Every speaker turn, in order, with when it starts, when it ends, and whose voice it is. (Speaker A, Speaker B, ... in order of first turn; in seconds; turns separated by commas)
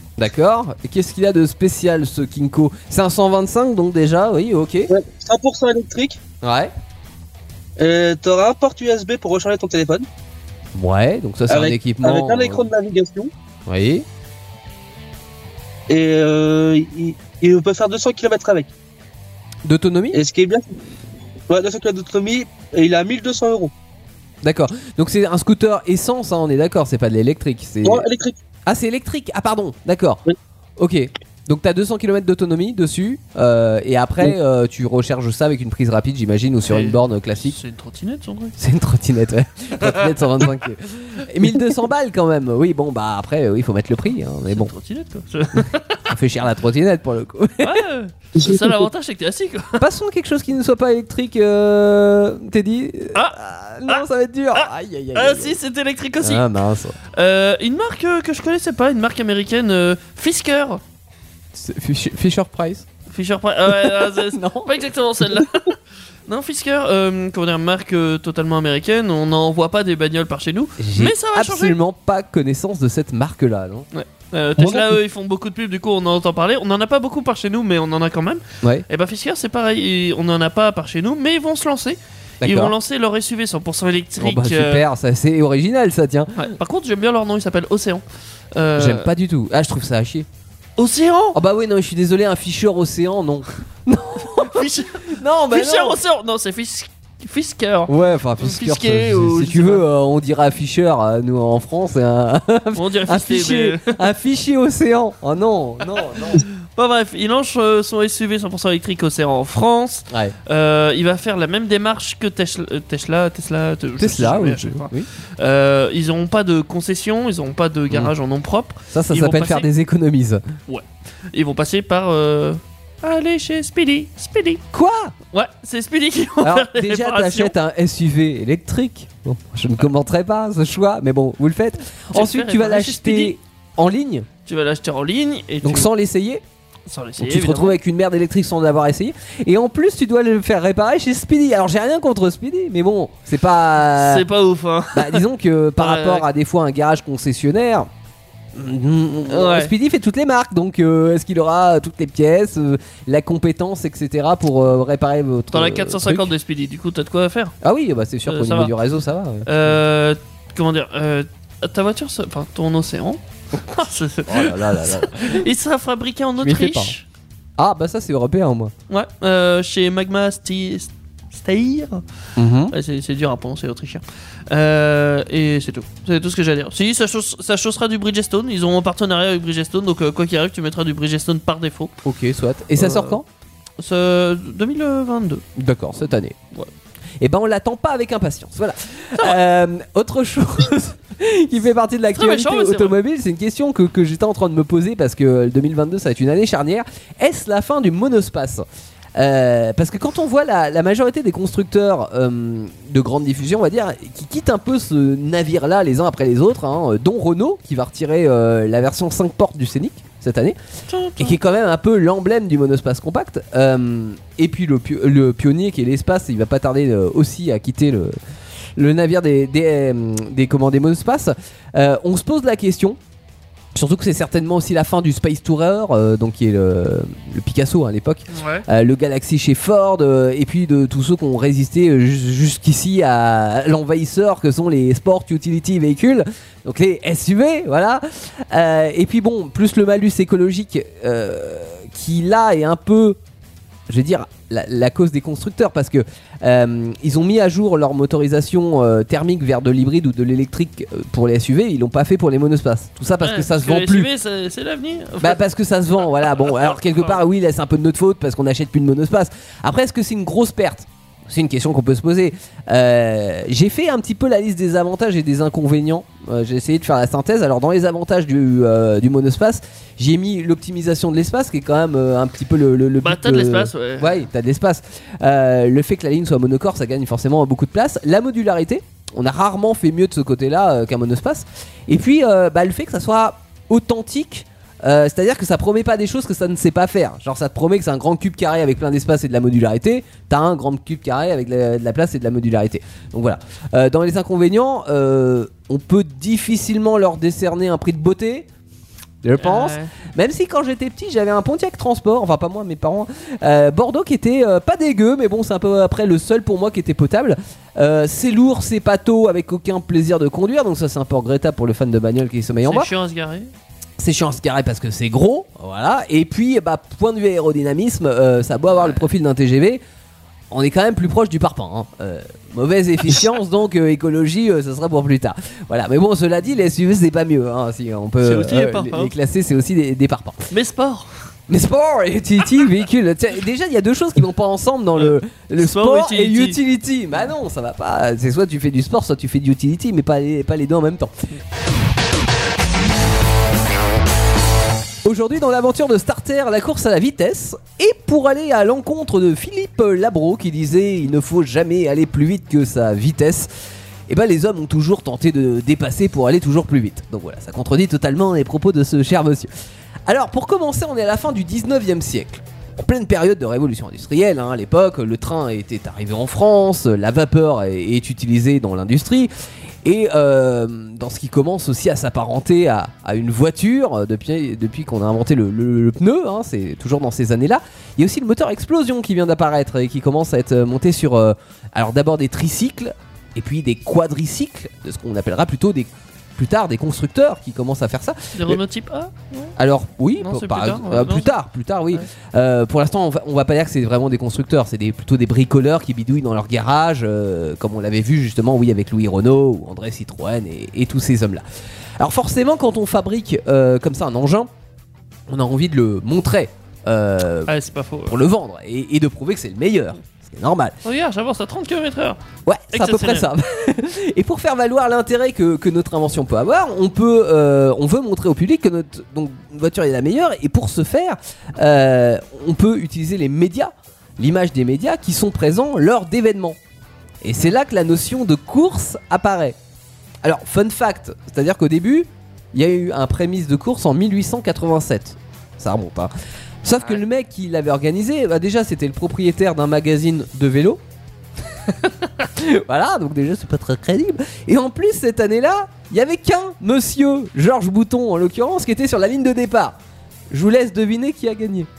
Speaker A: 0.2-4.9, Speaker B: 4.9-6.2, Speaker A: 6.4-6.7, Speaker B: 7.8-10.0, Speaker A: 10.7-12.6, Speaker B: 11.5-13.3, Speaker A: 13.7-14.0, Speaker B: 15.9-18.7, Speaker A: 19.6-20.2, Speaker B: 20.1-20.8, Speaker B: 21.5-23.7, Speaker A: 24.4-28.1, Speaker B: 27.8-28.4, Speaker A: 28.7-30.2, Speaker A: 30.8-37.6, Speaker C: 36.7-38.5, Speaker A: 38.6-44.7, Speaker C: 39.8-40.5, Speaker C: 44.5-46.1, Speaker A: 46.1-47.8, Speaker C: 47.6-49.8, Speaker B: 48.4-48.7, Speaker A: 49.8-55.6, Speaker C: 53.9-56.4, Speaker A: 56.2-57.0, Speaker C: 57.1-60.8, Speaker A: 61.5-62.9, Speaker C: 63.1-71.8, Speaker A: 63.7-64.8, Speaker A: 70.8-73.9, Speaker C: 73.9-84.8, Speaker A: 74.6-74.9, Speaker A: 82.4-82.7, Speaker A: 84.2-86.5, Speaker C: 86.3-89.1, Speaker A: 88.8-90.3, Speaker C: 90.8-91.4, Speaker A: 91.3-96.0, Speaker C: 94.3-99.8, Speaker A: 97.9-106.5, Speaker C: 102.7-104.0, Speaker C: 106.4-119.7, Speaker A: 110.1-110.3, Speaker A: 114.0-115.1, Speaker A: 118.9-120.4, Speaker C: 120.7-124.6, Speaker A: 124.7-125.1, Speaker C: 125.3-127.5, Speaker A: 126.4-134.3, Speaker C: 132.1-133.3, Speaker C: 134.4-135.9, Speaker A: 135.6-136.4, Speaker C: 136.9-137.8, Speaker A: 137.2-144.3, Speaker C: 143.9-145.2, Speaker A: 144.9-147.9, Speaker C: 145.8-146.3, Speaker A: 148.5-156.3, Speaker C: 149.3-149.7, Speaker C: 155.5-157.6, Speaker A: 157.6-159.5, Speaker C: 158.3-158.7, Speaker C: 159.4-167.0, Speaker A: 164.3-165.4, Speaker A: 166.4-166.9, Speaker A: 167.6-168.7, Speaker C: 168.9-172.0, Speaker A: 172.4-172.7, Speaker C: 172.7-181.9, Speaker A: 182.0-183.2, Speaker C: 182.8-183.2, Speaker C: 183.8-185.4, Speaker A: 185.6-186.3, Speaker A: 187.2-198.6, Speaker C: 192.1-193.0, Speaker A: 199.2-210.6, Speaker C: 210.9-211.4, Speaker A: 211.2-218.2, Speaker A: 218.8-223.0, Speaker A: 223.7-243.2, Speaker C: 228.3-228.6, Speaker A: 243.9-254.1, Speaker C: 253.2-255.4, Speaker A: 255.2-298.5, Speaker C: 256.2-257.1, Speaker C: 273.0-274.2, Speaker A: 299.2-312.9, Speaker C: 299.4-299.9, Speaker C: 312.6-313.5, Speaker A: 314.0-319.8, Speaker A: 320.5-330.5, Speaker C: 328.2-329.1, Speaker C: 330.5-331.1, Speaker A: 331.5-341.1, Speaker C: 335.0-336.6, Speaker A: 345.0-353.5, Speaker A: 354.1-359.5, Speaker A: 360.1-369.3, Speaker A: 369.8-388.6, Speaker C: 388.3-389.5, Speaker A: 389.6-401.4, Speaker C: 390.2-391.3, Speaker A: 402.0-404.5, Speaker A: 405.3-407.5, Speaker C: 407.5-408.2, Speaker A: 408.1-410.8, Speaker C: 410.8-412.2, Speaker A: 412.4-426.6, Speaker C: 412.7-413.3, Speaker A: 427.2-429.6, Speaker A: 430.2-436.1, Speaker A: 436.6-440.8, Speaker A: 442.3-449.8, Speaker A: 450.3-451.7